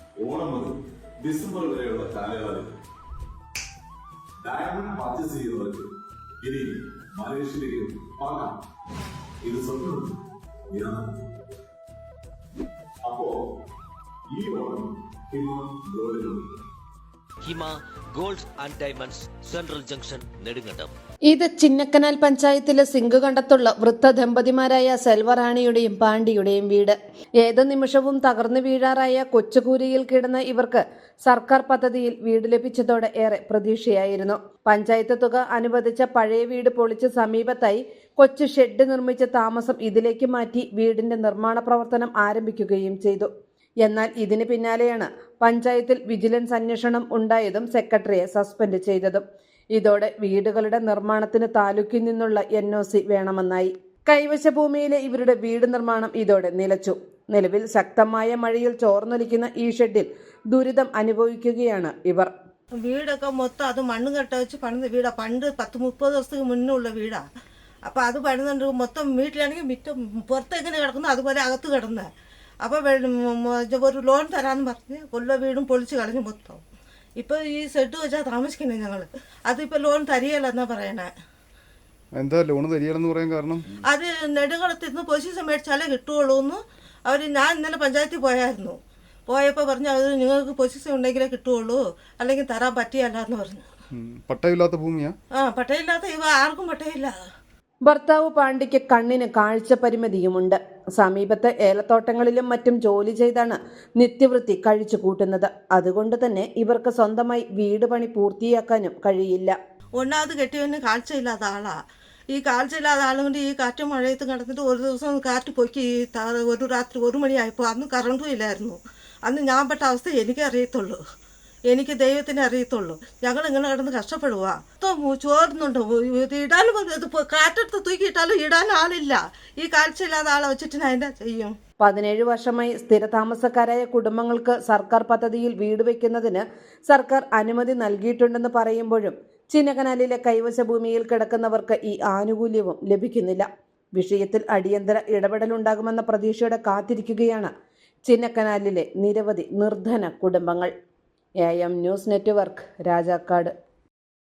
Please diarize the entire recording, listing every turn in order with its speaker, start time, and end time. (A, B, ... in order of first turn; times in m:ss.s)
0:00.2-0:02.7 A
0:04.4-0:05.9 A
0:06.4-0:08.6 A
0:09.4-0:10.2 A
0:10.7-0:11.2 A
0:13.0-0:13.4 A
0:14.3-0:16.5 A
0:17.4-0:20.9 B
0:21.3-0:43.3 C
0:43.8-0:49.2 C
0:49.7-1:02.3 C
1:02.8-1:07.2 D
1:07.9-1:12.1 D
1:12.6-1:16.6 D
1:17.2-1:21.1 D
1:22.1-1:23.7 E
1:23.9-1:28.8 D
1:29.3-1:33.6 D
1:33.9-1:35.2 E
1:35.4-1:37.1 D
1:37.8-1:49.6 C
1:50.0-1:51.8 D
1:52.3-2:01.0 D
2:01.7-2:11.5 D
2:11.8-2:27.5 C
2:28.1-2:30.7 C
2:31.4-2:33.5 C